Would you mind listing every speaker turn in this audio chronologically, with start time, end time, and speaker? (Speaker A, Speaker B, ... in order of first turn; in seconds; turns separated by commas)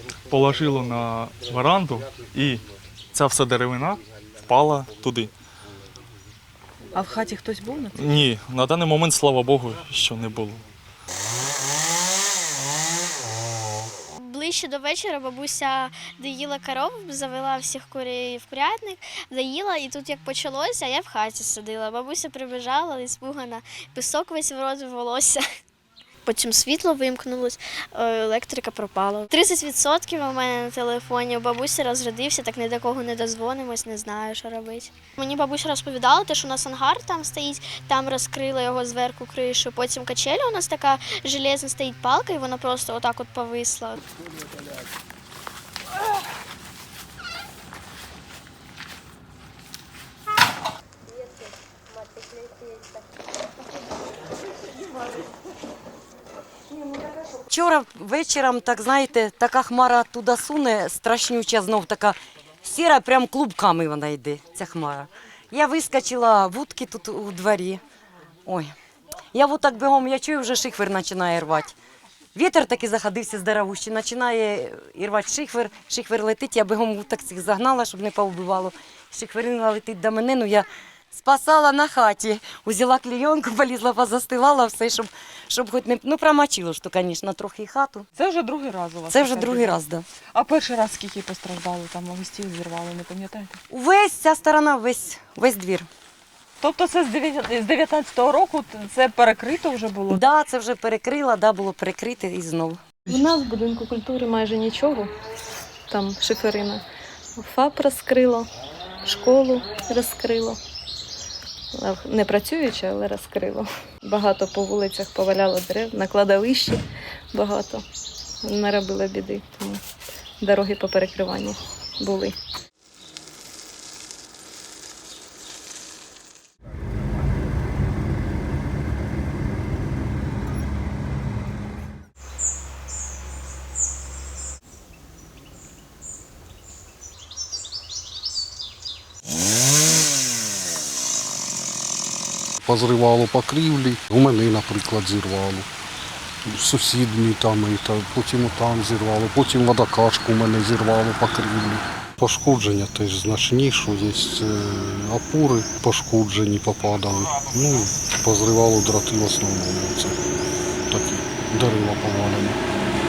Speaker A: 0.3-2.6, Speaker A: 3.1-5.3, Speaker B: 6.9-8.2, Speaker A: 8.0-10.6, Speaker C: 14.2-25.4, Speaker C: 26.3-44.0, Speaker D: 57.3-67.8, Speaker D: 68.5-68.8, Speaker D: 69.3-71.8, Speaker D: 72.3-88.1, Speaker B: 88.2-89.8, Speaker D: 89.1-90.1, Speaker B: 90.3-93.6, Speaker D: 93.7-95.9, Speaker B: 96.6-100.2, Speaker D: 100.1-102.8, Speaker E: 103.1-105.1, Speaker E: 105.9-106.8, Speaker E: 107.4-108.5, Speaker E: 109.0-110.6, Speaker E: 111.8-116.8, Speaker E: 117.3-117.8, Speaker E: 118.4-119.8, Speaker E: 120.4-122.4, Speaker F: 142.6-145.7, Speaker F: 146.4-160.2, Speaker F: 160.9-162.6